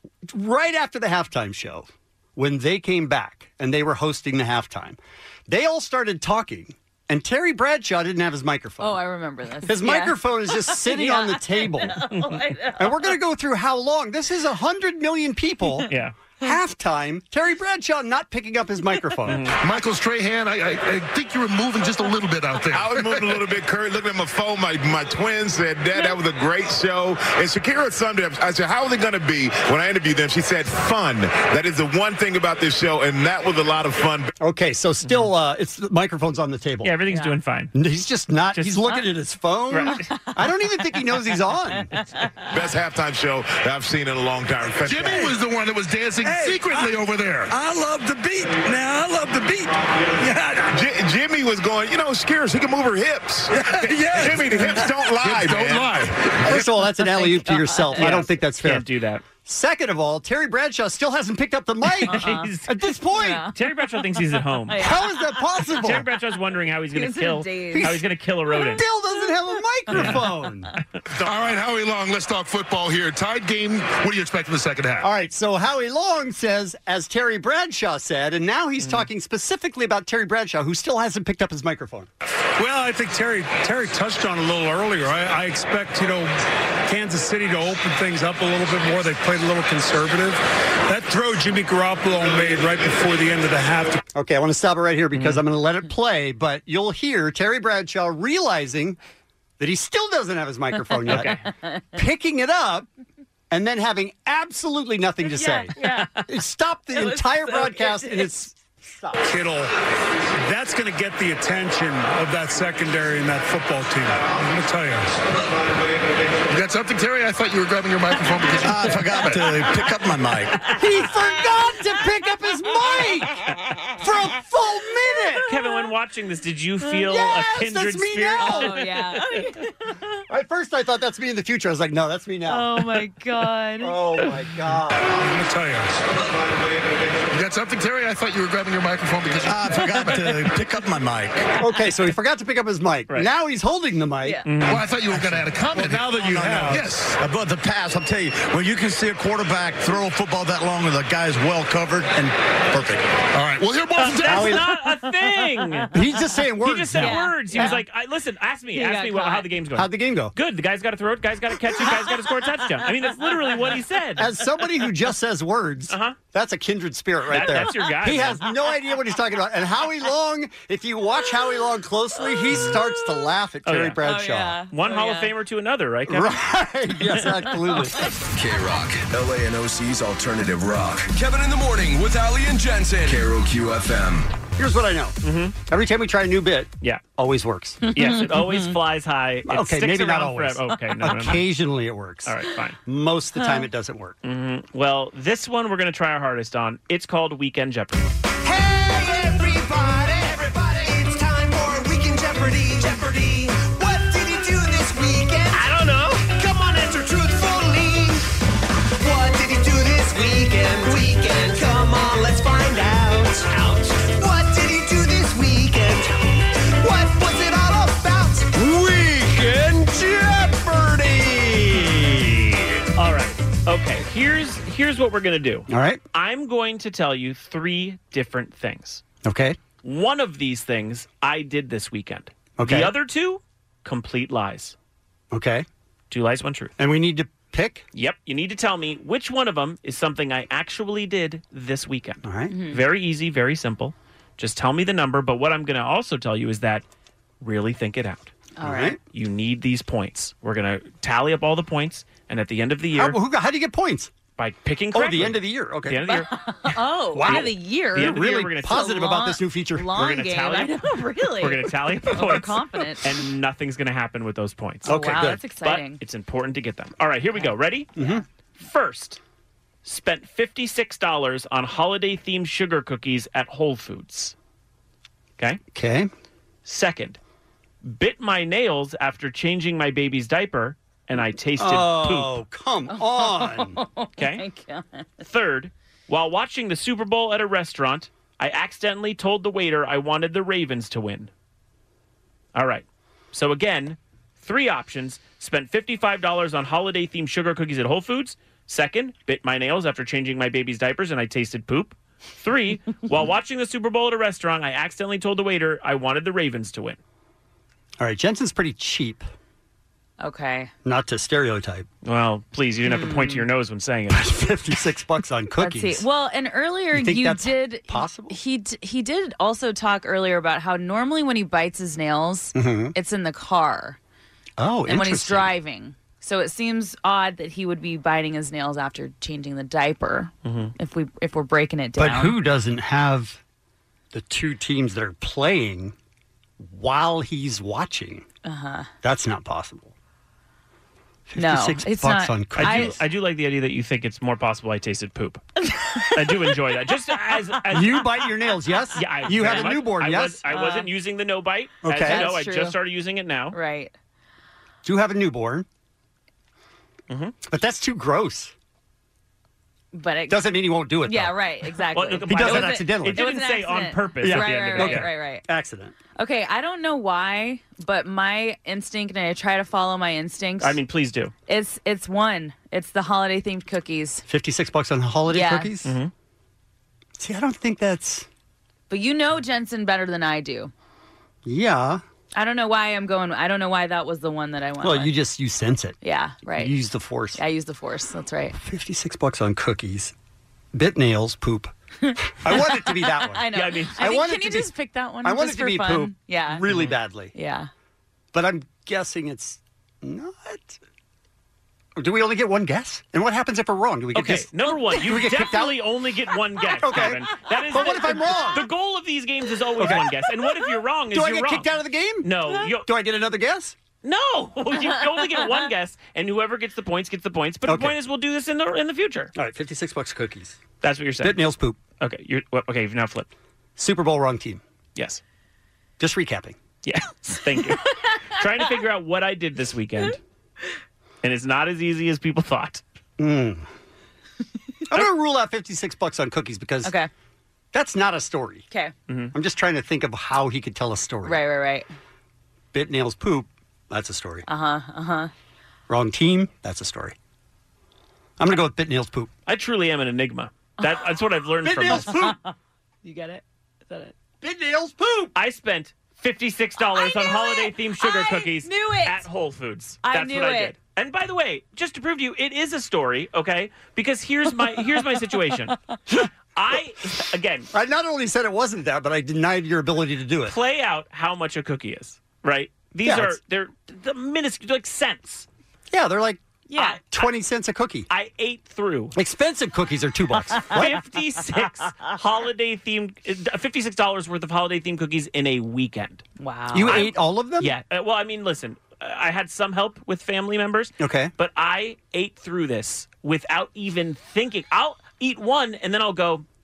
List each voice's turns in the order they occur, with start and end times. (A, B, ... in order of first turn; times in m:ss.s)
0:00.2-0:09.0 A
0:08.8-0:12.9 B
0:09.6-0:12.1 A
0:12.1-0:12.4 C
0:12.8-0:15.9 A
0:15.9-0:16.1 C
0:16.4-0:19.5 A
0:19.3-0:19.5 C
0:19.6-0:23.4 D
0:22.7-0:34.3 E
0:34.4-0:36.9 A
0:35.0-0:35.3 C
0:36.8-0:37.7 C
0:37.1-0:37.3 B
0:37.7-0:41.9 A
0:38.5-0:39.0 C
0:39.7-0:40.1 C
0:42.0-0:42.3 B
0:42.5-0:45.2 E
0:44.8-0:47.5 D
0:50.6-0:56.0 E
0:53.6-0:54.6 D
0:55.2-0:56.7 D
0:56.4-0:58.8 A
0:57.0-0:58.2 B
0:58.0-0:59.2 C
0:59.4-1:03.4 A
1:02.0-1:02.7 C
1:02.1-1:02.5 B
1:03.1-1:03.5 B
1:03.4-1:04.8 C
1:04.7-1:05.4 B
1:04.8-1:06.0 A
1:05.8-1:08.8 C
1:06.9-1:08.0 B
1:07.7-1:10.7 A
1:09.9-1:10.2 C
1:11.2-1:15.1 D
1:15.0-1:22.1 A
1:18.8-1:19.1 C
1:22.6-1:26.3 F
1:26.8-1:34.0 F
1:34.1-1:39.0 A
1:35.1-1:35.4 C
1:39.6-1:41.4 A
1:41.1-1:41.4 C
1:41.1-1:41.8 B
1:41.9-1:42.9 A
1:43.5-1:45.7 A
1:45.3-1:46.2 B
1:46.3-1:49.2 A
1:46.9-1:48.4 B
1:49.2-1:49.7 F
1:50.4-1:55.1 F
1:56.5-1:59.6 D
1:58.7-2:00.5 G
2:00.7-2:03.4 A
2:04.0-2:05.5 A
2:05.4-2:09.2 C
2:07.0-2:08.8 A
2:08.4-2:10.0 B
2:10.3-2:12.8 A
2:12.5-2:14.2 B
2:13.8-2:15.1 A
2:15.2-2:15.8 F
2:17.3-2:20.4 D
2:19.5-2:21.3 G
2:21.6-2:24.4 A
2:24.4-2:24.8 C
2:24.6-2:27.2 D
2:25.4-2:26.8 A
2:25.8-2:26.8 F
2:27.2-2:29.2 G
2:29.8-2:31.3 G
2:33.3-2:34.5 D
2:34.0-2:36.0 C
2:34.2-2:34.6 A
2:35.9-2:37.2 A
2:36.6-2:44.3 C
2:37.0-2:37.8 B
2:38.7-2:39.5 B
2:39.7-2:40.3 A
2:44.2-2:54.6 A
2:45.9-2:46.2 C
2:47.3-2:48.4 C
2:53.6-2:54.0 C
2:54.0-2:55.3 B
2:54.7-2:56.4 C
2:56.1-2:58.0 A
2:58.3-3:04.3 H
3:04.6-3:07.8 A
3:05.2-3:05.6 C
3:07.8-3:08.7 B
3:07.9-3:11.4 C
3:09.5-3:14.2 A
3:12.2-3:12.8 C
3:13.4-3:13.6 B
3:14.2-3:18.1 C
3:18.4-3:28.3 I
3:29.0-3:42.6 I
3:43.0-3:49.0 C
3:45.7-3:46.0 A
3:49.2-3:49.6 A
3:49.8-3:54.7 C
3:52.6-3:52.9 A
3:55.3-3:55.6 A
3:56.1-3:56.7 C
3:56.8-3:57.8 A
3:57.9-4:06.8 C
4:02.2-4:02.5 A
4:02.5-4:02.8 B
4:07.4-4:08.3 C
4:08.6-4:09.0 B
4:08.6-4:09.0 A
4:09.1-4:13.2 C
4:12.9-4:14.1 A
4:14.4-4:16.3 C
4:14.9-4:16.2 A
4:16.1-4:23.1 B
4:17.1-4:20.0 A
4:17.2-4:19.2 C
4:19.9-4:20.8 C
4:21.4-4:25.0 C
4:24.8-4:25.4 A
4:24.8-4:26.0 B
4:25.6-4:28.1 C
4:28.0-4:28.2 A
4:28.6-4:29.2 C
4:29.8-4:34.3 C
4:35.7-4:36.1 A
4:36.6-4:37.2 C
4:37.8-4:42.4 C
4:41.6-4:43.8 A
4:42.9-4:45.1 B
4:44.2-4:44.4 C
4:45.2-4:51.3 C
4:52.5-5:07.0 C
5:08.0-5:09.2 A
5:10.2-5:10.7 B
5:10.8-5:11.9 A
5:12.0-5:14.3 C
5:12.8-5:13.4 B
5:14.1-5:16.0 A
5:15.6-5:24.0 B
5:16.9-5:18.4 A
5:22.5-5:22.9 A
5:24.6-5:25.5 A
5:24.9-5:32.4 B
5:30.4-5:30.7 C
5:32.0-5:33.4 A
5:34.1-5:35.9 A
5:36.6-5:38.2 A
5:38.4-5:38.9 B
5:39.0-5:39.9 A
5:41.3-5:43.0 A
5:41.4-5:43.0 B
5:42.6-5:45.4 C
5:46.0-5:48.2 C
5:47.7-5:50.4 A
5:49.0-5:53.6 C
5:50.5-5:50.9 B
5:51.8-5:52.3 A
5:52.0-5:52.8 B
5:53.5-5:53.9 B
5:54.8-5:55.6 A
5:57.1-5:57.3 C
5:57.4-5:58.5 A
5:59.9-6:00.5 B
6:00.3-6:01.4 A
6:01.0-6:05.4 B
6:01.9-6:05.1 C
6:02.3-6:03.3 A
6:04.2-6:05.9 A
6:06.2-6:10.8 B
6:10.6-6:11.3 C
6:11.5-6:14.2 B
6:14.3-6:15.9 A
6:15.3-6:15.7 B
6:15.8-6:16.1 C
6:17.2-6:18.3 A
6:18.9-6:20.7 B
6:21.4-6:22.0 A
6:22.3-6:25.1 B
6:24.8-6:26.0 A
6:26.0-6:26.7 B
6:26.5-6:27.4 A
6:27.4-6:28.6 B
6:28.6-6:30.1 A
6:30.7-6:31.7 A
6:32.0-6:36.7 B
6:32.4-6:34.7 A
6:33.5-6:34.0 C
6:35.2-6:37.3 A
6:36.7-6:36.9 C
6:37.3-6:37.7 B
6:38.3-6:40.8 A
6:42.0-6:45.8 A
6:44.1-6:51.7 C
6:46.8-6:48.6 A
6:49.8-6:50.1 A
6:51.1-6:53.7 A
6:52.2-6:52.9 C
6:54.0-6:59.3 C
6:57.6-6:57.9 A
6:59.3-7:00.6 A
7:00.8-7:01.4 C
7:01.2-7:01.8 A
7:02.0-7:03.3 C
7:03.8-7:04.6 A
7:05.0-7:05.2 C
7:06.0-7:06.6 A
7:06.8-7:10.2 C
7:11.2-7:12.8 C
7:13.2-7:13.7 A
7:14.9-7:16.9 A
7:16.8-7:17.1 B
7:17.7-7:18.6 A
7:19.1-7:19.3 C
7:19.3-7:21.4 A
7:21.2-7:21.9 B
7:22.7-7:24.4 A
7:24.5-7:25.3 B
7:25.9-7:27.2 A
7:28.4-7:29.3 A
7:29.5-7:32.2 C
7:31.6-7:32.4 A
7:31.9-7:32.5 B
7:33.0-7:34.1 B
7:34.4-7:35.3 A
7:35.3-7:47.7 C
7:36.8-7:39.2 B
7:40.0-7:40.7 B
7:47.7-7:50.6 A
7:50.5-7:55.4 C
7:53.0-7:53.4 A
7:55.9-7:56.4 A
7:56.7-7:57.0 B
7:56.8-7:57.3 C
7:57.1-7:58.1 A
7:58.1-7:59.1 C
7:59.1-8:01.0 A
8:00.7-8:06.2 C
8:06.4-8:07.1 B
8:06.7-8:07.7 A
8:07.6-8:16.4 C
8:11.0-8:11.3 A